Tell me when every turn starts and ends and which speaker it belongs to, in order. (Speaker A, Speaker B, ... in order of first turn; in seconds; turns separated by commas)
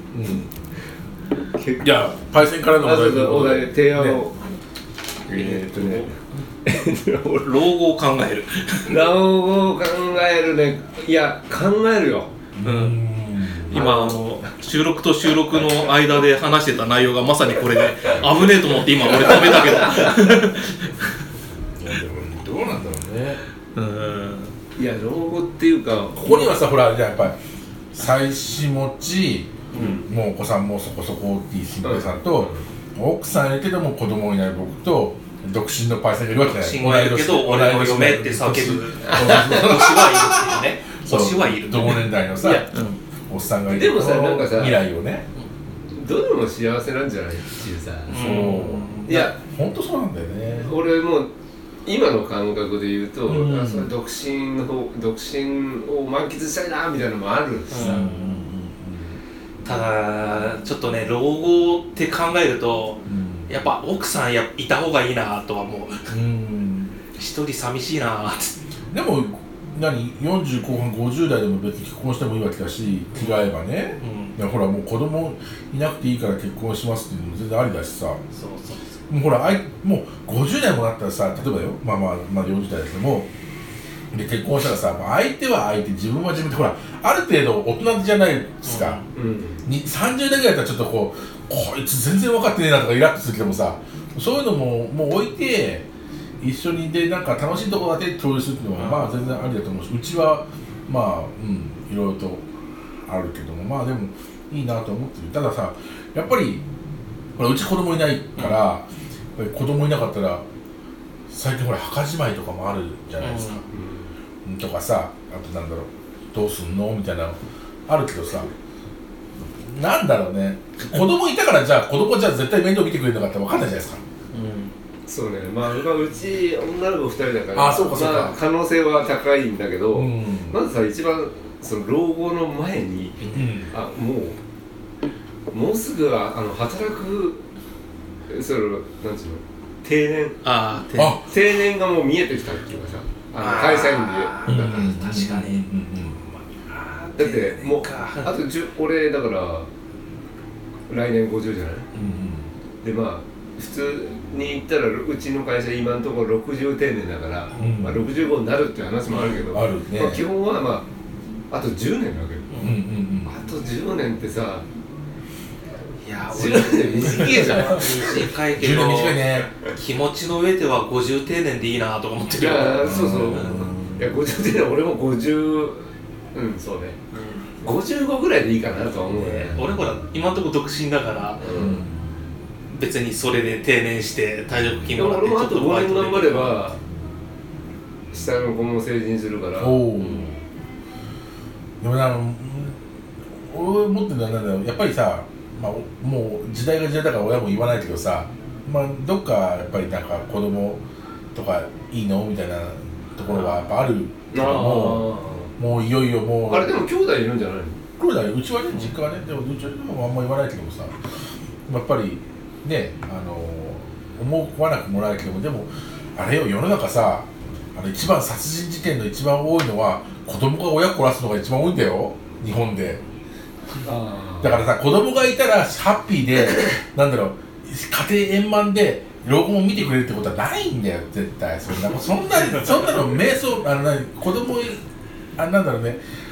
Speaker A: 0.1-0.5, Speaker B: 1.6-1.9, Speaker A: 1.8-4.2, Speaker B: 2.7-4.3, Speaker C: 5.3-6.1, Speaker B: 5.3-6.1, Speaker B: 6.7-7.5, Speaker C: 7.4-9.0, Speaker B: 8.9-12.3, Speaker A: 12.6-13.9, Speaker C: 12.6-13.0, Speaker C: 13.7-20.9, Speaker B: 13.7-14.2, Speaker B: 19.0-20.2, Speaker A: 21.8-23.4, Speaker C: 23.8-24.5, Speaker B: 24.8-26.6, Speaker A: 26.2-27.4, Speaker A: 27.9-42.7, Speaker B: 29.7-30.0, Speaker B: 31.8-32.5, Speaker C: 36.4-42.2, Speaker B: 39.0-39.6, Speaker B: 42.4-42.7, Speaker C: 42.7-43.0, Speaker A: 43.3-45.3, Speaker B: 43.7-44.8, Speaker B: 45.9-49.4, Speaker C: 48.1-49.3, Speaker A: 48.1-50.8, Speaker B: 50.5-51.3, Speaker B: 51.8-58.1, Speaker A: 53.2-53.9, Speaker C: 57.7-58.4, Speaker A: 57.8-59.2, Speaker C: 59.6-66.1, Speaker A: 63.1-63.5, Speaker A: 66.1-67.0, Speaker C: 67.1-68.5, Speaker A: 68.9-78.2, Speaker C: 73.1-74.4, Speaker C: 78.3-78.9, Speaker A: 79.1-83.3, Speaker A: 84.1-89.0, Speaker C: 88.6-89.0, Speaker B: 89.1-89.6, Speaker A: 89.6-95.9, Speaker A: 96.4-102.5, Speaker C: 98.8-99.5, Speaker A: 103.1-106.6, Speaker A: 107.4-110.5, Speaker C: 108.4-108.7, Speaker A: 111.3-113.7, Speaker C: 113.2-113.6, Speaker B: 113.7-114.1, Speaker A: 114.5-118.5, Speaker A: 119.5-124.0, Speaker C: 124.3-124.7, Speaker B: 125.1-134.4, Speaker A: 127.5-128.4, Speaker A: 129.9-130.6, Speaker C: 133.2-133.6, Speaker A: 133.3-133.7, Speaker B: 135.5-137.4, Speaker B: 138.3-140.4, Speaker C: 140.4-141.2, Speaker A: 140.9-141.2, Speaker B: 141.2-145.1, Speaker C: 143.4-145.7, Speaker A: 144.5-146.2, Speaker C: 146.5-148.3, Speaker B: 147.2-149.7, Speaker B: 150.9-151.9, Speaker A: 151.9-152.5, Speaker B: 152.8-160.9, Speaker A: 157.6-158.0, Speaker C: 159.1-159.4, Speaker A: 159.5-160.2, Speaker B: 161.5-162.5, Speaker C: 162.5-162.8, Speaker A: 162.6-163.3, Speaker B: 163.2-164.7, Speaker C: 166.0-173.7, Speaker B: 166.3-168.2, Speaker A: 167.2-167.8, Speaker A: 168.5-169.5, Speaker B: 172.3-177.0, Speaker A: 172.8-174.2, Speaker C: 177.1-177.4, Speaker B: 177.6-179.7, Speaker C: 179.1-181.5, Speaker B: 181.4-181.8, Speaker A: 181.5-182.0, Speaker C: 182.7-186.7, Speaker B: 184.9-186.8, Speaker B: 188.1-189.8, Speaker A: 189.6-190.4, Speaker C: 190.0-190.3, Speaker A: 191.8-192.8, Speaker A: 193.4-206.8, Speaker C: 203.3-203.7, Speaker B: 204.3-205.5, Speaker B: 206.5-207.8, Speaker A: 208.0-211.0, Speaker A: 211.7-223.0, Speaker B: 223.8-224.6, Speaker A: 224.4-234.8, Speaker A: 235.4-236.0